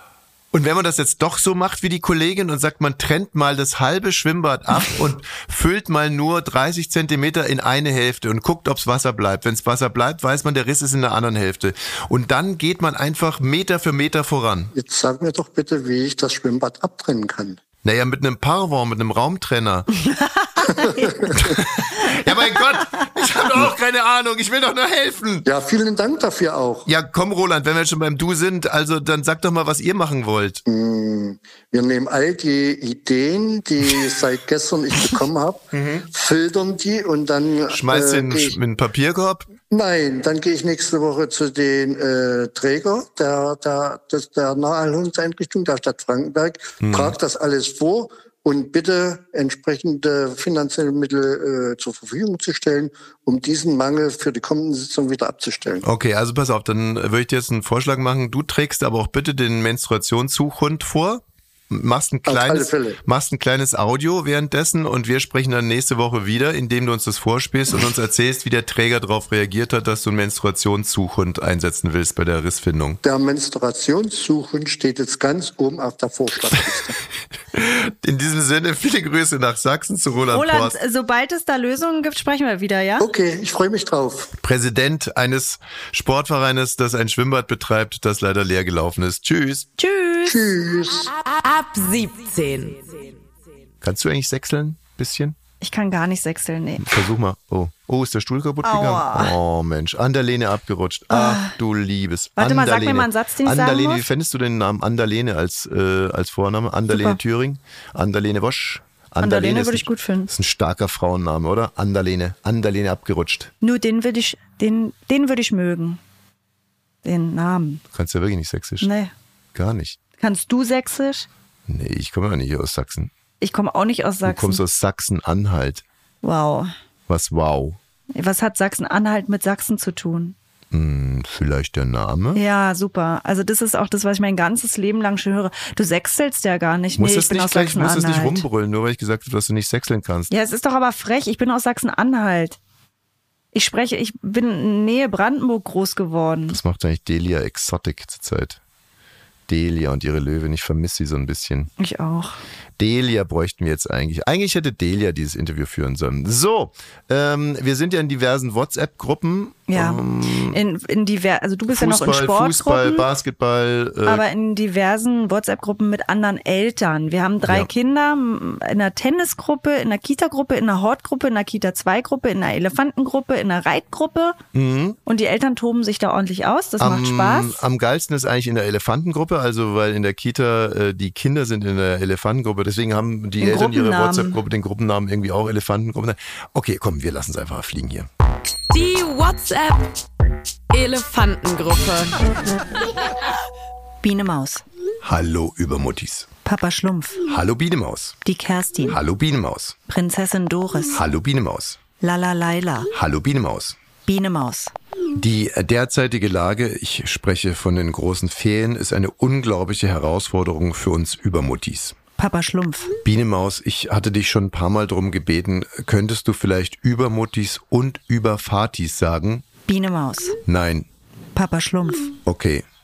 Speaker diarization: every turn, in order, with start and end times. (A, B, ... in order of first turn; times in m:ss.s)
0:00.5-0:14.7 A
0:14.7-0:17.6 B
0:17.8-0:19.9 A
0:20.2-0:21.1 C
0:20.6-0:21.5 B
0:21.3-0:25.5 A
0:25.4-0:26.9 B
0:26.8-0:30.6 A
0:30.6-0:38.6 B
0:35.7-0:36.1 A
0:37.7-0:39.5 A
0:39.7-0:55.8 B
0:46.8-0:47.2 A
0:55.8-1:13.0 A
1:02.2-1:03.0 B
1:13.0-1:17.0 B
1:17.5-1:20.8 A
1:20.3-1:23.1 C
1:23.0-1:24.3 B
1:24.4-1:29.7 A
1:29.8-1:30.4 C
1:30.2-1:31.1 B
1:31.1-1:33.2 D
1:33.8-1:35.4 A
1:35.6-1:36.9 C
1:36.8-1:53.5 A
1:38.6-1:39.3 C
1:41.1-1:41.6 C
1:42.4-1:44.0 C
1:46.9-1:47.2 C
1:49.2-1:50.3 C
1:53.6-1:56.0 C
1:57.0-1:57.8 C
1:57.9-1:58.9 A
1:58.8-1:59.1 C
1:59.5-2:00.0 A
2:00.2-2:01.3 C
2:01.7-2:03.1 A
2:03.4-2:04.6 C
2:04.2-2:05.8 A
2:06.2-2:06.7 C
2:07.1-2:07.8 A
2:08.1-2:10.3 C
2:10.7-2:12.4 A
2:12.3-2:18.4 C
2:17.0-2:20.3 A
2:20.3-2:22.6 C
2:23.5-2:26.6 C
2:26.5-2:28.6 A
2:29.5-2:31.7 A
2:31.8-2:32.4 C
2:32.8-2:40.6 A
2:39.7-2:43.0 C
2:41.7-2:44.2 A
2:44.0-2:54.4 C
2:54.5-2:55.0 A
2:55.0-2:57.6 C
2:56.8-3:08.1 A
3:03.4-3:04.4 C
3:08.7-3:09.9 D
3:10.7-3:12.2 D
3:14.0-3:14.6 C
3:15.0-3:16.3 A
3:16.4-3:17.2 C
3:17.3-3:18.2 A
3:18.2-3:19.0 C
3:18.9-3:19.8 A
3:19.9-3:21.0 C
3:20.9-3:21.8 A
3:22.0-3:22.9 C
3:22.9-3:23.8 A
3:24.1-3:24.7 C
3:25.2-3:32.0 A
3:32.2-3:32.9 C
3:33.0-3:39.4 A
3:39.7-3:40.4 C
3:40.4-3:40.9 A
3:41.4-3:42.2 C
3:42.2-3:42.6 A